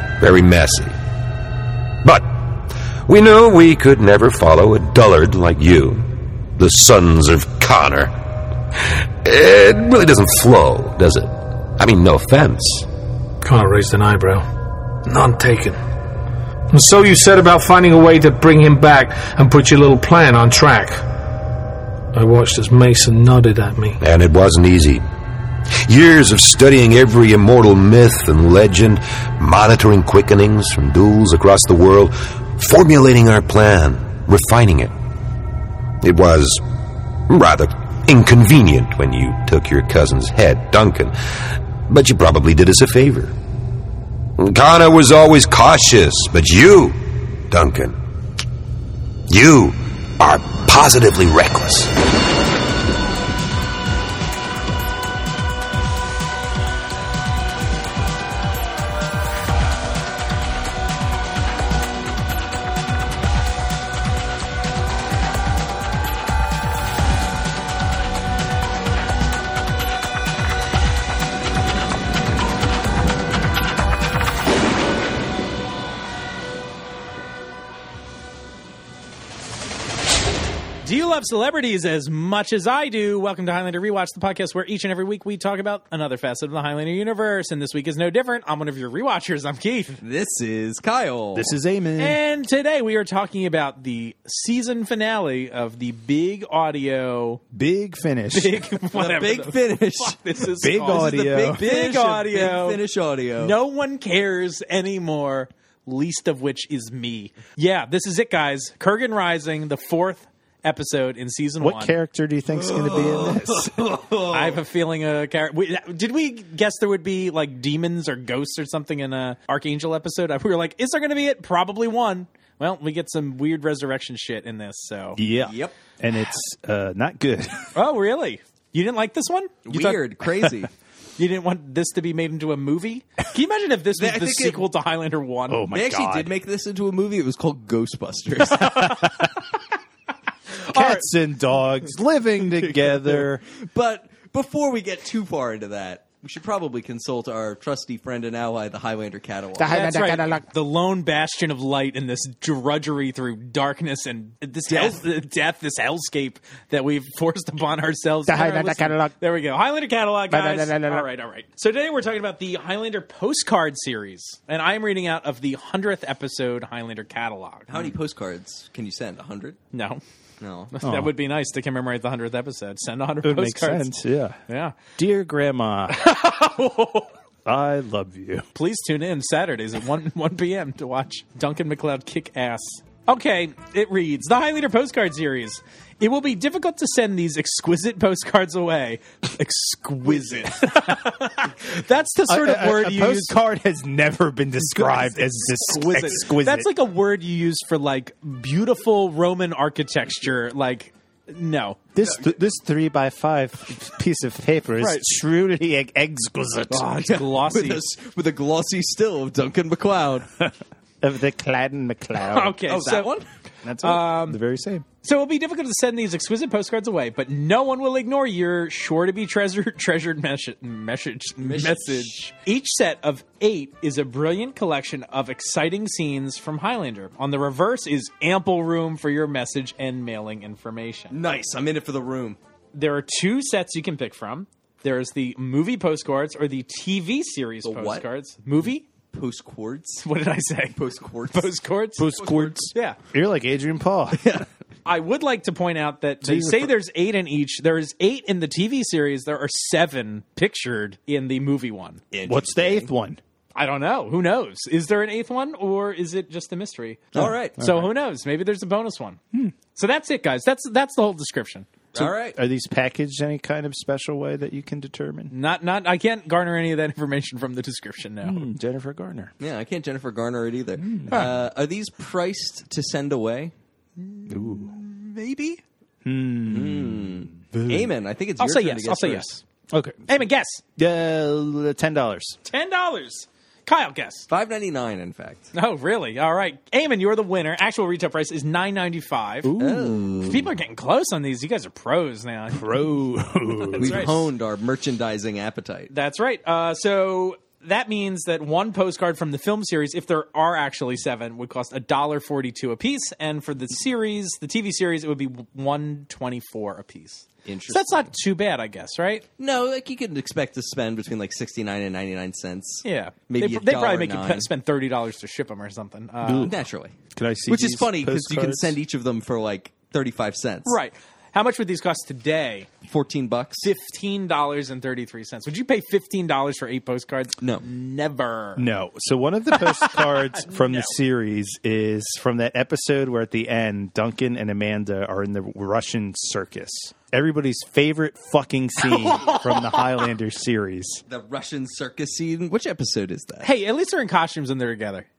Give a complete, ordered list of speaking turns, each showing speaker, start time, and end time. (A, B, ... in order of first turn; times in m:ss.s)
0:00.2-0:01.0 A
0:02.0-0:08.2 A
0:09.2-0:12.9 A
0:13.4-0:14.5 B
0:15.0-0:15.8 B
0:16.7-0:21.0 B
0:22.1-0:24.0 B
0:24.0-0:25.0 A
0:25.8-0:34.9 A
0:36.0-0:36.6 A
0:37.3-0:41.1 A
0:41.9-0:43.3 A
0:44.4-0:48.0 A
0:49.3-0:51.9 A
1:20.8-1:30.0 C
1:30.0-1:31.5 D
1:31.3-1:32.2 E
1:32.0-1:37.4 C
1:37.5-1:38.6 E
1:38.3-1:42.8 C
1:38.9-1:43.5 D
1:40.6-1:41.6 E
1:43.4-1:52.0 C
1:51.6-1:53.9 E
1:52.5-1:54.6 D
1:54.3-2:05.2 C
2:05.2-2:07.7 E
2:05.4-2:05.7 D
2:07.7-2:10.0 C
2:09.7-2:10.7 D
2:11.2-2:15.7 C
2:14.0-2:14.7 D
2:15.5-2:16.3 E
2:15.7-2:19.0 D
2:18.6-2:19.1 C
2:20.7-2:21.0 C
2:20.7-2:23.4 E
2:22.5-2:29.8 D
2:29.6-2:30.4 E
2:29.7-2:47.8 C
2:34.7-2:35.0 D
2:38.3-2:39.1 E
2:40.3-2:41.1 E
2:47.7-2:49.6 D
2:49.7-2:50.0 C
2:50.4-2:50.7 D
2:50.7-2:53.9 C
2:50.8-2:51.1 E
2:53.2-2:54.4 E
2:54.5-2:54.8 C
2:55.0-2:56.0 E
2:55.9-2:57.1 C
2:57.4-2:58.4 E
2:58.5-3:13.3 C
3:12.3-3:16.7 E
3:14.6-3:21.9 C
3:21.9-3:26.9 E
3:24.8-3:25.1 C
3:26.7-3:27.9 C
3:26.8-3:30.3 D
3:31.0-3:32.6 E
3:32.2-3:33.1 C
3:32.7-3:33.2 D
3:33.6-3:34.8 E
3:33.8-3:34.4 C
3:35.0-3:51.2 C
3:41.4-3:42.1 D
3:51.1-3:52.4 D
3:52.7-3:58.8 C
3:57.6-3:58.0 D
3:59.1-4:00.0 D
4:00.0-4:00.8 C
4:00.7-4:01.6 D
4:01.3-4:02.1 C
4:02.0-4:04.4 E
4:02.1-4:02.7 D
4:02.7-4:03.0 C
4:04.2-4:04.5 D
4:04.8-4:12.0 C
4:06.2-4:06.7 E
4:12.1-4:12.9 D
4:12.2-4:13.2 E
4:13.6-4:19.2 C
4:17.1-4:17.6 D
4:17.1-4:17.9 E
4:19.7-4:21.7 C
4:21.9-4:25.3 E
4:21.9-4:22.4 D
4:25.3-4:28.5 C
4:28.2-4:29.3 E
4:29.4-4:33.5 D
4:30.8-4:31.4 E
4:34.0-4:35.6 C
4:34.3-4:34.7 E
4:36.0-4:37.9 E
4:36.5-4:39.3 D
4:38.4-4:39.4 C
4:39.7-4:40.2 E
4:40.1-4:40.6 C
4:40.8-4:42.4 E
4:42.4-4:44.3 C
4:44.3-4:45.5 D
4:45.5-4:49.5 C
4:49.4-4:50.3 E
4:49.6-4:50.5 D
4:50.2-4:52.8 C
4:52.5-4:54.0 E
4:53.6-4:54.3 C
4:53.8-4:55.9 D
4:55.9-5:09.2 C
5:07.4-5:08.1 D
5:09.4-5:14.5 D
5:12.8-5:16.5 C
5:16.2-5:16.5 E
5:16.4-5:16.9 D
5:17.1-5:18.8 E
5:17.5-5:20.8 D
5:20.6-5:22.7 C
5:22.8-5:23.7 D
5:23.6-5:28.6 C
5:27.4-5:27.6 D
5:28.6-5:41.0 E
5:29.6-5:30.9 C
5:38.8-5:40.1 C
5:41.1-5:43.5 D
5:43.4-5:45.1 C